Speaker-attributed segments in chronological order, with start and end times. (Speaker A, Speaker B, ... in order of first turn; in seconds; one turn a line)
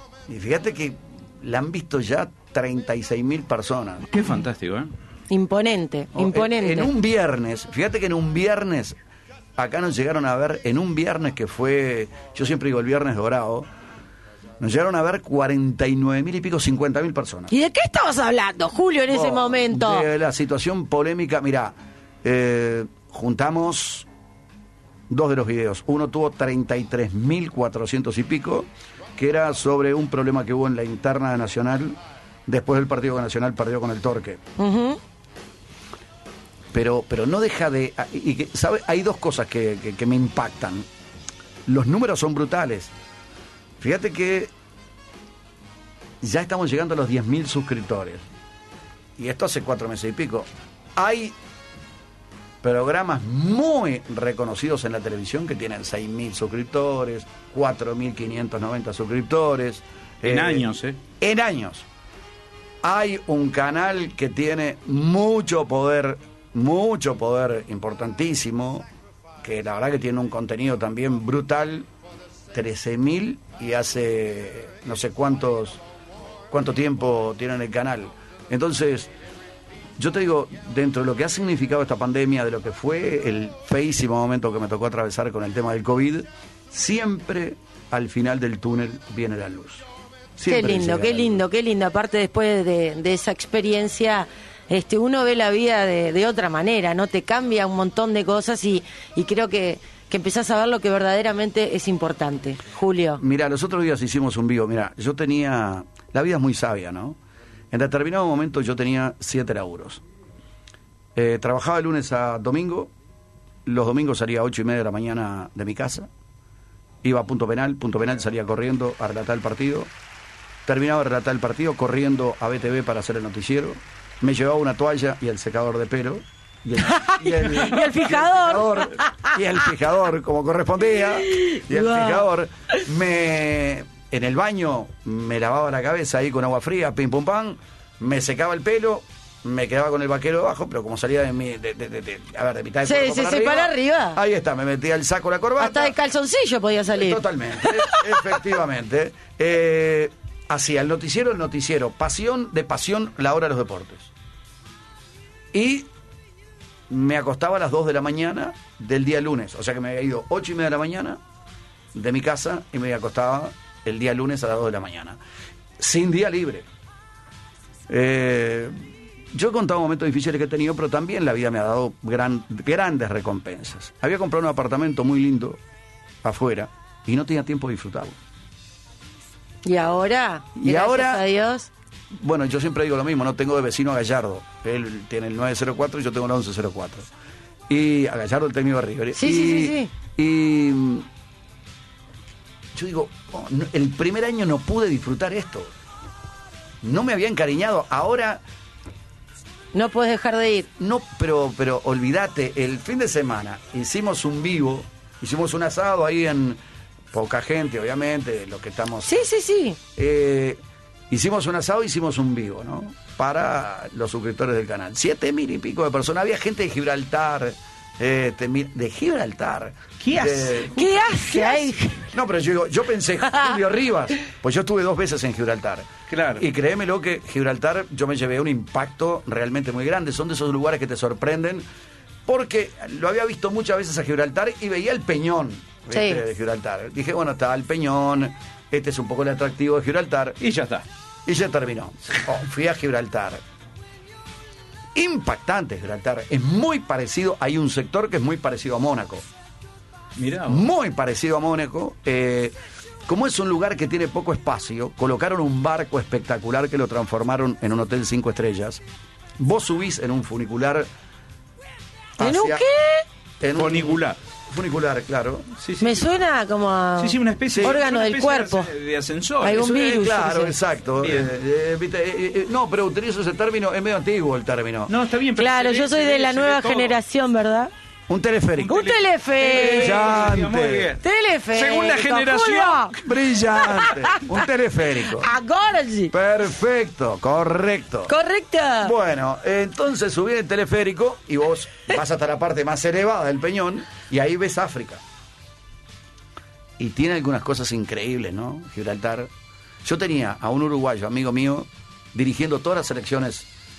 Speaker A: 0.3-4.1
Speaker B: 4.1-4.9
Speaker C: 5.3-6.9
Speaker A: 6.1-9.0
Speaker A: 9.6-13.7
Speaker A: 14.6-17.5
Speaker C: 17.5-20.1
Speaker A: 19.1-24.1
Speaker A: 25.1-34.4
Speaker C: 34.6-35.0
Speaker A: 36.7-40.9
Speaker A: 41.7-42.9
Speaker A: 43.8-44.5
Speaker A: 46.2-48.2
Speaker A: 49.2-51.4
Speaker A: 52.6-61.9
Speaker B: 60.2-61.0
Speaker A: 62.8-68.9
Speaker A: 69.4-71.9
Speaker A: 72.5-75.8
Speaker A: 76.5-79.1
Speaker A: 80.0-89.8
Speaker A: 90.4-91.4
Speaker C: 90.5-103.2
Speaker A: 103.2-107.2
Speaker A: 107.7-110.0
Speaker A: 111.2-112.9
Speaker A: 113.7-116.1
Speaker A: 117.0-119.9
Speaker A: 120.7-145.9
Speaker C: 126.8-129.4
Speaker C: 131.2-132.3
Speaker C: 142.8-144.2
Speaker C: 145.6-148.1
Speaker A: 146.9-154.1
Speaker A: 155.5-155.9
Speaker A: 156.9-161.2
Speaker A: 161.9-165.2
Speaker A: 165.8-166.7
Speaker A: 167.9-168.8
Speaker A: 169.3-175.6
Speaker A: 176.2-178.2
Speaker C: 179.7-181.7
Speaker A: 180.6-181.2
Speaker A: 182.1-187.1
Speaker A: 187.7-191.1
Speaker C: 189.2-189.9
Speaker A: 192.7-195.7
Speaker A: 196.8-198.4
Speaker C: 199.7-200.7
Speaker A: 200.8-206.6
Speaker A: 207.1-209.2
Speaker C: 209.1-209.8
Speaker A: 209.9-220.8
Speaker B: 220.0-221.4
Speaker C: 220.7-222.1
Speaker A: 221.5-231.7
Speaker B: 226.1-226.4
Speaker A: 232.3-240.4
Speaker C: 235.9-236.2
Speaker B: 240.4-240.8
Speaker A: 241.3-243.4
Speaker A: 244.9-249.3
Speaker B: 250.2-250.7
Speaker A: 250.5-252.6
Speaker A: 253.1-258.8
Speaker A: 259.4-260.9
Speaker A: 262.2-262.6
Speaker C: 262.2-263.1
Speaker A: 263.4-265.5
Speaker B: 263.6-264.2
Speaker B: 265.6-266.1
Speaker C: 265.8-268.7
Speaker B: 267.0-269.6
Speaker A: 267.5-267.8
Speaker C: 269.4-270.6
Speaker A: 269.4-274.9
Speaker B: 271.0-271.3
Speaker B: 274.9-277.0
Speaker C: 275.4-277.7
Speaker A: 278.1-278.8
Speaker B: 278.6-283.1
Speaker C: 278.7-280.1
Speaker A: 279.5-280.9
Speaker C: 281.0-282.9
Speaker A: 283.0-285.3
Speaker C: 283.6-284.4
Speaker C: 285.1-286.1
Speaker A: 286.1-288.1
Speaker C: 288.1-288.9
Speaker A: 288.8-295.0
Speaker A: 296.8-299.3
Speaker A: 299.8-303.5